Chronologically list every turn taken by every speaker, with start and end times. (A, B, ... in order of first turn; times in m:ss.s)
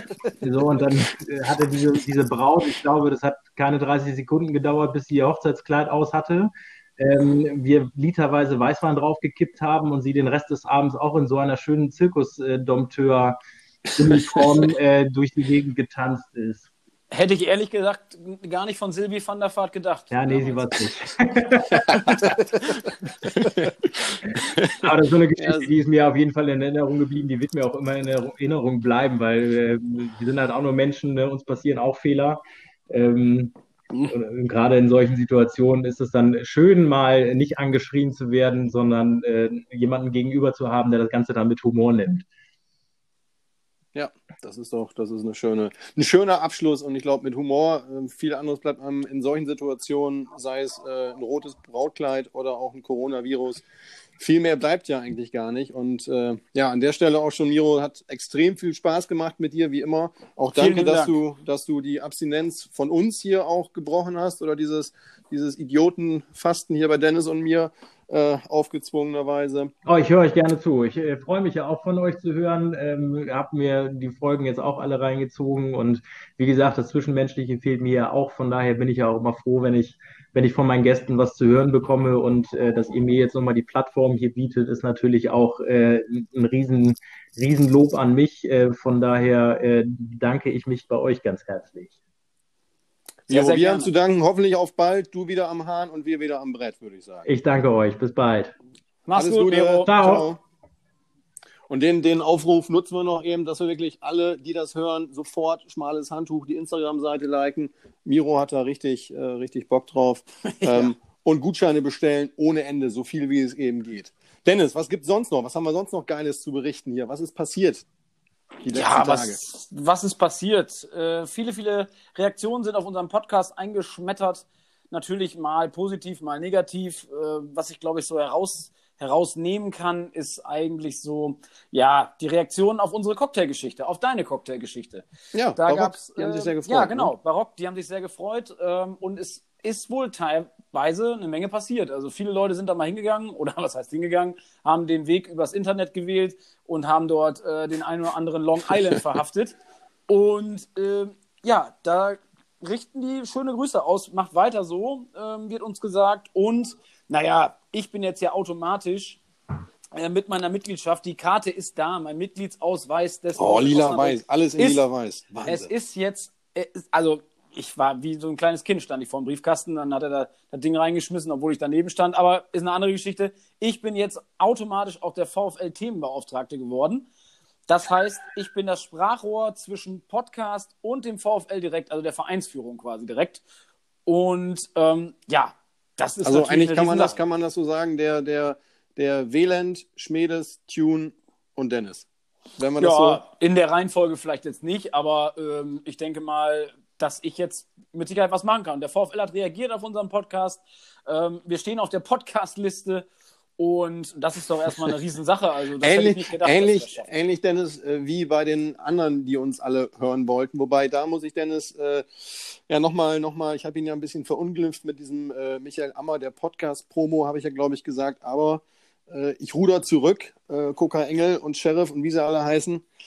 0:00.4-0:13.4 A
0:14.0-0:16.7 A
0:17.1-0:20.7 B
0:20.1-0:22.0 A
0:21.9-0:22.4 C
0:22.2-0:22.8 B
0:23.2-0:24.8 C
0:24.7-0:33.5 A
0:25.4-0:25.7 C
0:34.1-0:42.2 A
0:43.9-0:53.6 C
0:54.2-1:09.7 C
1:00.5-1:01.1 B
1:09.8-1:31.9 A
1:33.3-1:37.3 C
1:33.3-1:33.9 B
1:37.2-1:38.5 A
1:39.1-1:39.9 B
1:39.1-1:40.4 C
1:39.8-1:40.2 A
1:41.7-1:57.8 C
1:50.6-1:50.9 B
1:58.6-1:59.4 C
1:58.7-2:15.0 B
2:15.3-2:17.1 C
2:15.6-2:29.6 B
2:30.1-2:39.2 B
2:39.9-2:44.8 B
2:43.4-2:45.7 C
2:45.4-2:57.1 B
2:57.7-3:03.4 B
3:04.0-3:07.2 B
3:06.2-3:12.0 C
3:12.6-3:13.2 C
3:12.8-3:23.0 B
3:23.6-3:27.1 B
3:25.8-3:42.8 C